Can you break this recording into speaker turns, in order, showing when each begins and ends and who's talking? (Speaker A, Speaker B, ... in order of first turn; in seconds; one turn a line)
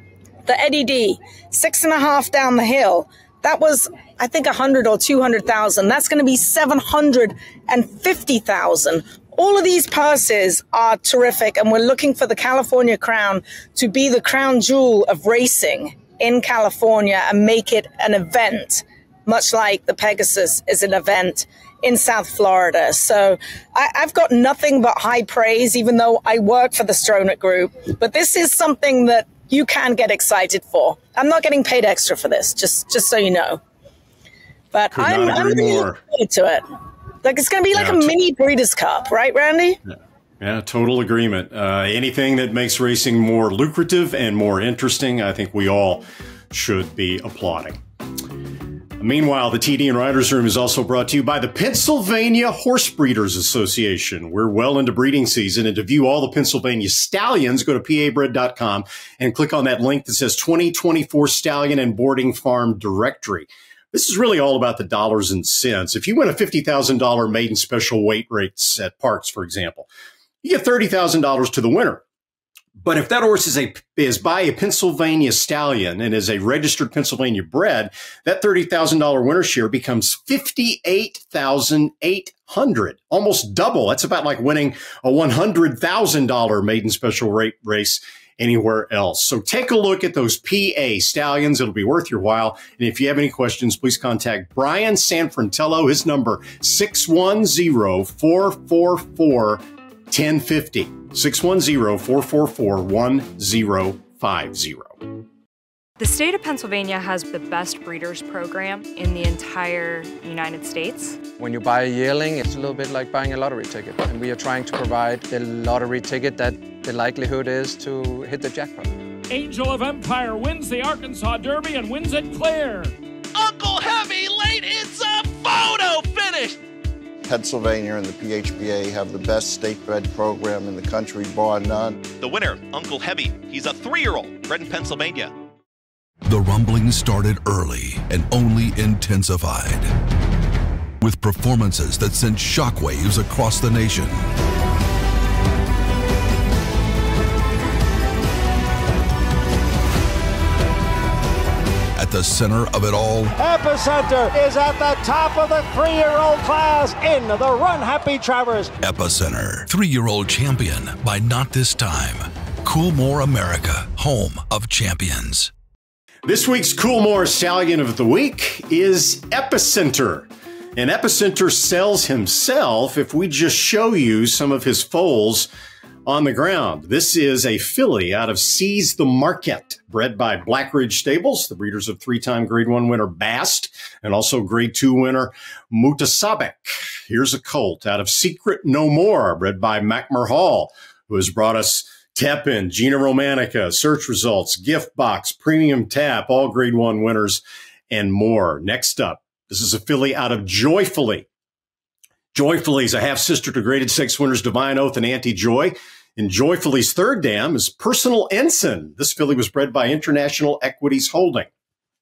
Speaker A: 0.5-33.6
Speaker A: 34.7-36.6
Speaker B: 34.9-36.0
Speaker A: 37.2-39.8
Speaker B: 37.8-38.1
Speaker B: 40.4-47.8
Speaker B: 49.0-69.9
Speaker B: 70.4-72.0
Speaker B: 72.8-105.0
Speaker C: 106.0-111.2
Speaker D: 111.4-118.9
Speaker E: 119.3-122.9
Speaker F: 123.3-126.6
Speaker G: 127.2-132.1
Speaker F: 132.1-135.3
Speaker H: 136.2-139.9
Speaker H: 141.0-144.2
Speaker H: 152.0-153.3
Speaker I: 153.4-158.7
Speaker H: 158.8-165.5
Speaker B: 166.2-175.5
Speaker B: 176.1-201.3
Speaker B: 202.3-211.5